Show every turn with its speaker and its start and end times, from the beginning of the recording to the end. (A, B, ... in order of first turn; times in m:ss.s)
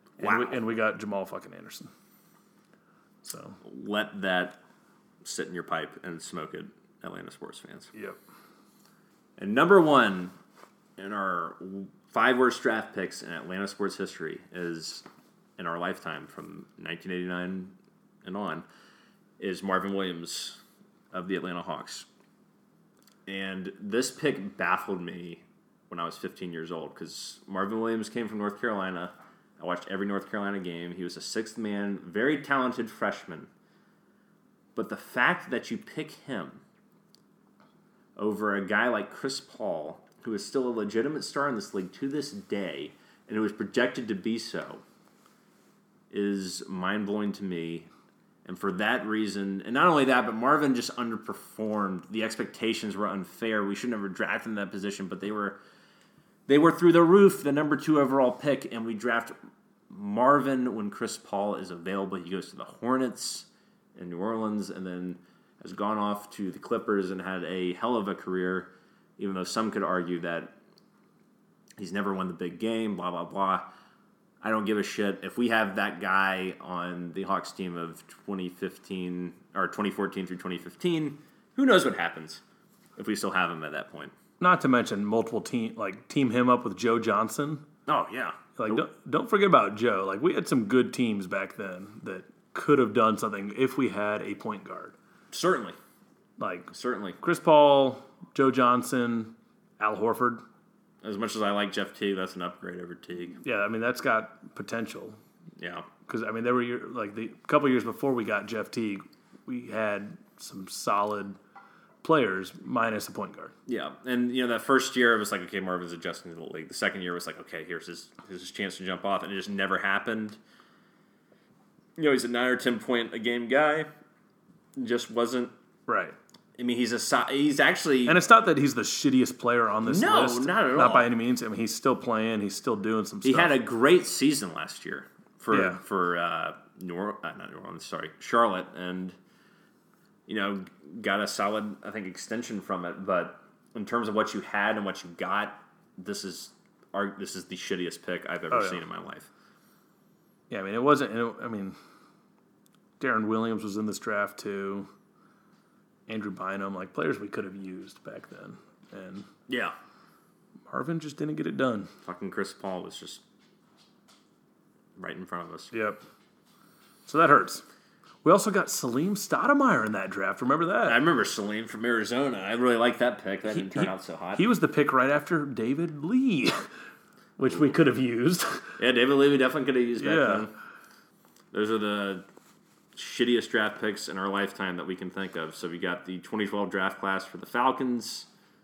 0:00.2-0:01.9 A
0:00.2-0:00.6 B
0:03.2-0:03.6 A
0:03.6-0:04.6 B
0:05.2-0:07.9 B
0:09.4-0:10.3 B
0:11.0-0:15.0 B
0:15.6-0:18.6 B
0:19.4-0:20.6 B
0:21.1-0:22.1 B
0:23.3-0:33.5 B
0:34.7-0:36.6 B
0:38.2-0:44.8 B
0:46.1-0:47.9 B
0:48.4-0:55.6 B
0:56.5-0:59.3 B
0:59.9-1:10.6 B
1:11.8-1:13.6 B
1:14.4-1:22.4 B
1:23.0-1:24.1 B
1:24.4-1:27.6 A
1:27.9-1:28.8 B
1:28.6-1:35.0 A
1:35.3-1:35.8 B
1:36.4-1:40.4 A
1:36.7-1:37.2 B
1:41.0-1:43.4 B
1:43.4-1:45.2 A
1:45.6-1:45.8 B
1:46.1-1:51.4 A
1:52.0-1:53.5 A
1:53.7-2:00.4 B
2:02.0-2:03.9 B
2:04.8-2:05.5 B
2:05.9-2:06.2 A
2:06.6-2:08.2 B
2:08.0-2:13.6 A
2:09.8-2:11.1 B
2:13.2-2:19.2 B
2:15.5-2:15.8 A
2:20.3-2:29.3 B
2:28.5-2:28.8 A
2:30.5-2:31.8 A
2:33.0-2:34.9 A
2:36.1-2:39.3 A
2:39.5-2:39.7 B
2:40.7-2:41.9 A
2:42.0-2:43.2 B
2:45.0-2:45.7 B
2:45.7-2:46.0 A
2:47.1-2:47.6 A
2:48.2-2:51.0 A
2:50.8-2:54.4 B
2:53.5-2:56.5 A
2:57.4-2:58.7 A
2:58.8-3:00.5 B
3:00.0-3:00.5 A
3:01.5-3:02.2 B
3:02.9-3:08.3 B